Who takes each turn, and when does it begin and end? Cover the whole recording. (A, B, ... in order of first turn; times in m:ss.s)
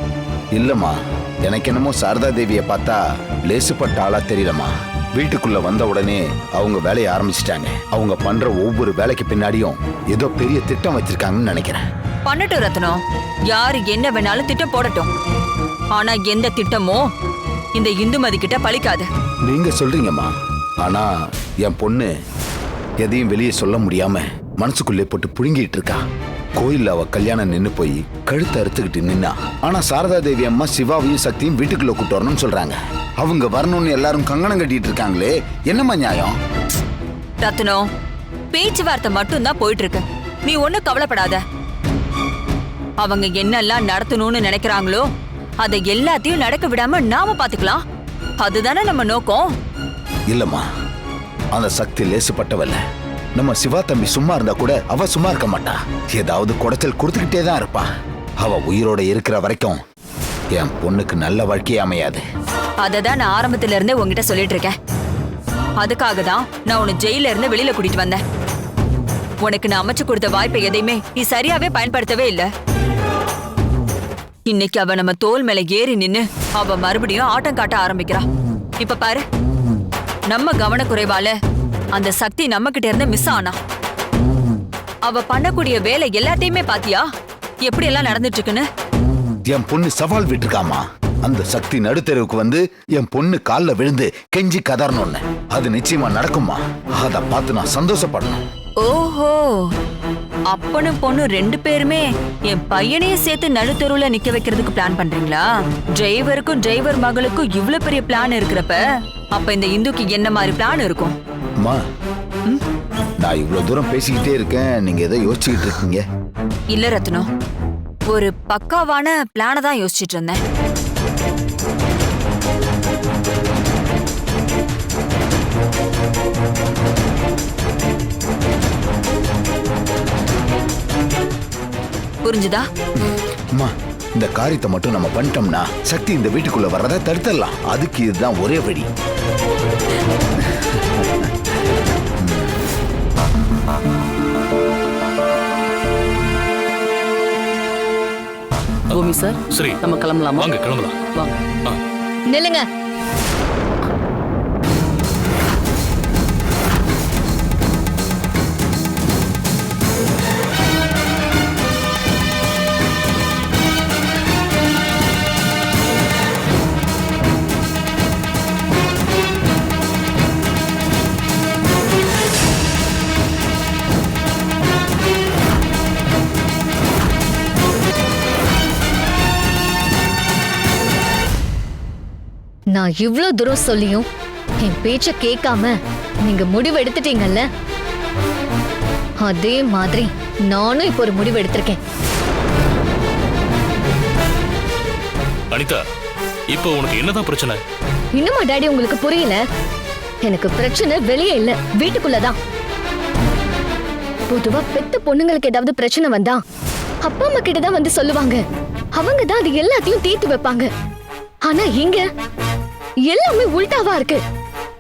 0:00.5-0:11.8 A
0:12.3-0:15.1 B
0:15.9-0:17.0 B
0:17.8-0:19.1 B
0:19.5-0:20.3 A
0:20.8-0:21.1 A
0:21.6-0:22.1 A
0:23.0-0:26.0 A
0:26.6-0:36.4 A
0:37.4-0:37.8 B
0:38.5-0:41.4 B
0:43.0-0:45.0 B
0:45.6-0:47.8 B
0:48.4-0:49.4 B
0:50.3-0:50.6 A
0:51.5-0:52.8 A
0:53.4-0:57.9 A
0:58.4-0:59.8 A
1:00.5-1:02.2 A
1:02.8-1:04.8 B
1:05.8-1:08.2 B
1:09.4-1:12.5 B
1:14.5-1:18.2 B
1:18.8-1:19.2 B
1:20.3-1:21.4 B
1:22.0-1:23.6 B
1:25.1-1:27.0 B
1:27.6-1:28.7 B
1:29.5-1:38.4 A
1:38.8-1:39.7 B
1:40.5-1:45.4 B
1:46.0-1:48.8 B
1:49.4-1:51.2 B
1:53.2-1:56.0 A
1:56.7-1:57.3 B
1:58.1-2:00.4 B
2:12.2-2:12.6 B
2:13.0-2:18.9 A
2:20.4-2:21.3 A
2:22.2-2:22.6 A
2:28.9-2:30.5 C
2:29.5-2:29.8 D
2:30.4-2:31.0 D
2:31.1-2:31.4 C
2:32.3-2:32.6 E
3:02.7-3:04.1 E
3:04.6-3:07.5 E
3:09.2-3:11.8 E
3:15.5-3:15.8 D
3:16.5-3:17.6 D
3:18.2-3:19.4 E
3:20.2-3:22.4 E
3:24.3-3:26.4 E
3:27.0-3:28.4 E
3:29.0-3:30.7 E
3:31.5-3:32.0 E
3:33.1-3:34.2 E